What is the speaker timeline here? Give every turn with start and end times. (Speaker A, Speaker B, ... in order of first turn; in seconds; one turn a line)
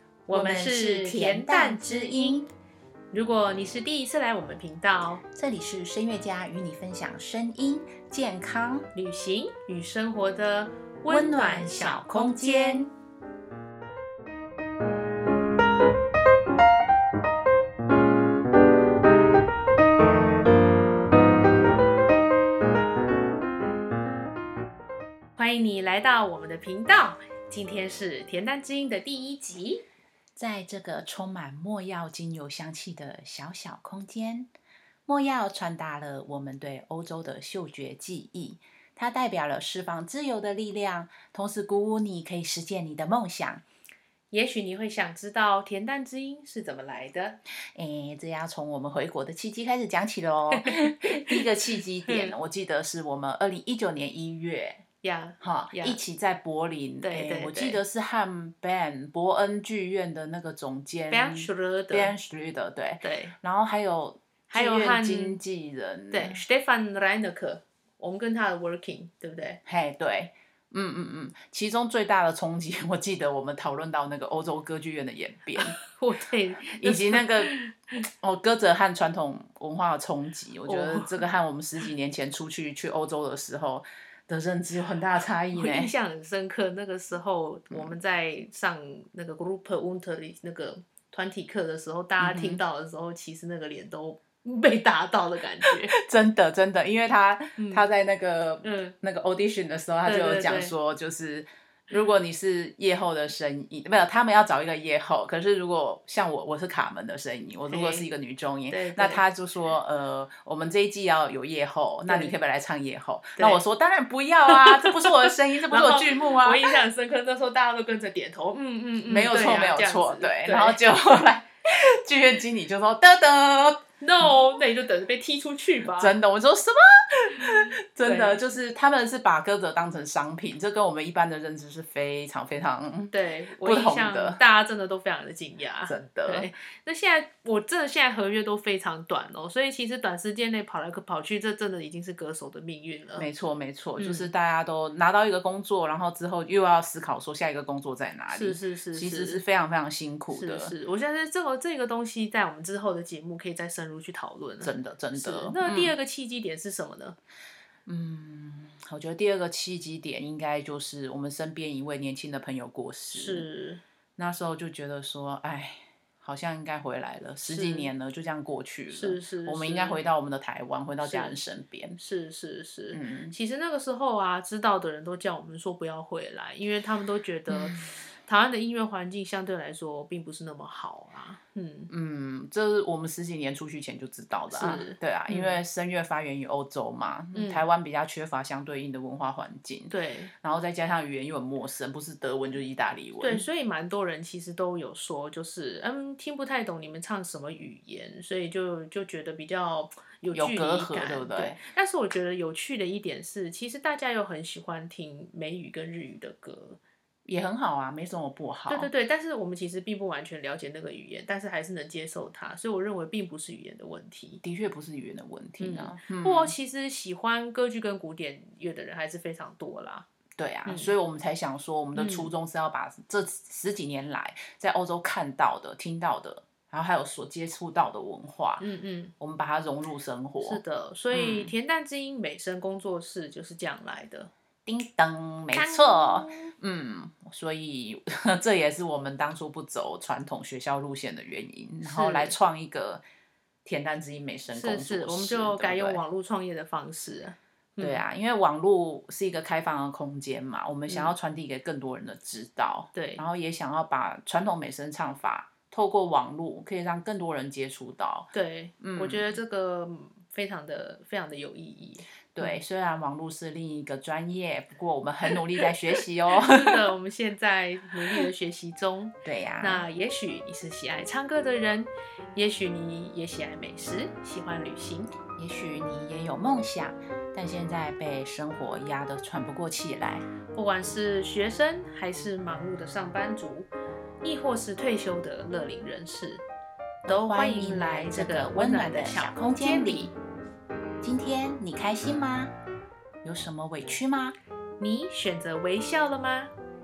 Speaker A: 0.3-2.4
Speaker B: 0.3-2.5
Speaker A: 3.1-5.2
Speaker B: 5.3-8.9
Speaker A: 8.9-12.2
Speaker B: 11.1-12.9
Speaker A: 25.4-29.8
Speaker B: 30.4-34.5
Speaker B: 35.0-43.6
Speaker A: 44.3-47.4
Speaker B: 47.7-54.8
Speaker A: 50.5-51.5
Speaker A: 52.0-52.3
Speaker A: 55.0-56.0
Speaker B: 55.4-66.4
Speaker A: 57.0-57.8
Speaker A: 61.1-62.1
Speaker A: 63.0-63.3
Speaker A: 64.5-65.4
Speaker A: 66.1-69.6
Speaker B: 69.7-75.8
Speaker A: 75.5-77.9
Speaker B: 76.8-77.5
Speaker B: 78.2-85.9
Speaker A: 80.6-81.3
Speaker A: 85.5-95.9
Speaker B: 87.7-88.0
Speaker B: 92.2-92.6
Speaker B: 95.6-116.8
Speaker A: 97.6-97.8
Speaker A: 98.6-98.9
Speaker A: 100.0-100.7
Speaker A: 107.7-108.1
Speaker A: 108.7-109.2
Speaker A: 112.1-112.3
Speaker A: 113.4-113.6
Speaker A: 114.5-115.1
Speaker A: 115.6-120.8
Speaker B: 119.1-124.4
Speaker A: 124.0-126.1
Speaker B: 125.9-134.4
Speaker A: 128.0-128.4
Speaker A: 133.1-143.3
Speaker B: 135.8-136.5
Speaker B: 143.2-150.7
Speaker A: 144.0-144.3
Speaker A: 148.3-149.4
Speaker A: 150.3-157.2
Speaker B: 154.6-155.9
Speaker B: 157.8-163.5
Speaker A: 163.1-163.8
Speaker B: 164.2-172.0
Speaker A: 167.4-167.9
Speaker A: 168.9-170.0
Speaker A: 171.0-171.3
Speaker A: 172.0-181.9
Speaker B: 172.9-173.3
Speaker B: 177.5-178.0
Speaker B: 181.9-193.4
Speaker A: 184.5-185.6
Speaker A: 187.3-187.6
Speaker A: 189.9-190.3
Speaker A: 193.2-206.8
Speaker B: 200.3-201.6
Speaker B: 207.2-208.9
Speaker A: 208.7-214.4
Speaker B: 214.4-216.5
Speaker A: 215.6-220.1
Speaker B: 220.4-228.7
Speaker A: 220.7-220.9
Speaker A: 221.9-222.3
Speaker A: 228.6-229.1
Speaker B: 229.2-231.5
Speaker A: 230.4-234.3
Speaker B: 234.7-243.0
Speaker A: 235.5-236.5
Speaker A: 241.8-242.3
Speaker B: 243.6-246.0
Speaker A: 244.5-248.0
Speaker B: 247.8-258.3
Speaker A: 250.9-251.1
Speaker A: 252.9-253.2
Speaker A: 258.3-262.6
Speaker B: 258.8-259.4
Speaker B: 262.3-266.9
Speaker A: 266.3-275.1
Speaker B: 269.2-269.8
Speaker B: 275.4-280.2
Speaker A: 280.5-283.7
Speaker A: 284.2-286.4
Speaker B: 287.0-290.1
Speaker A: 287.1-290.1
Speaker B: 291.0-292.5
Speaker B: 293.2-294.4
Speaker A: 294.8-296.5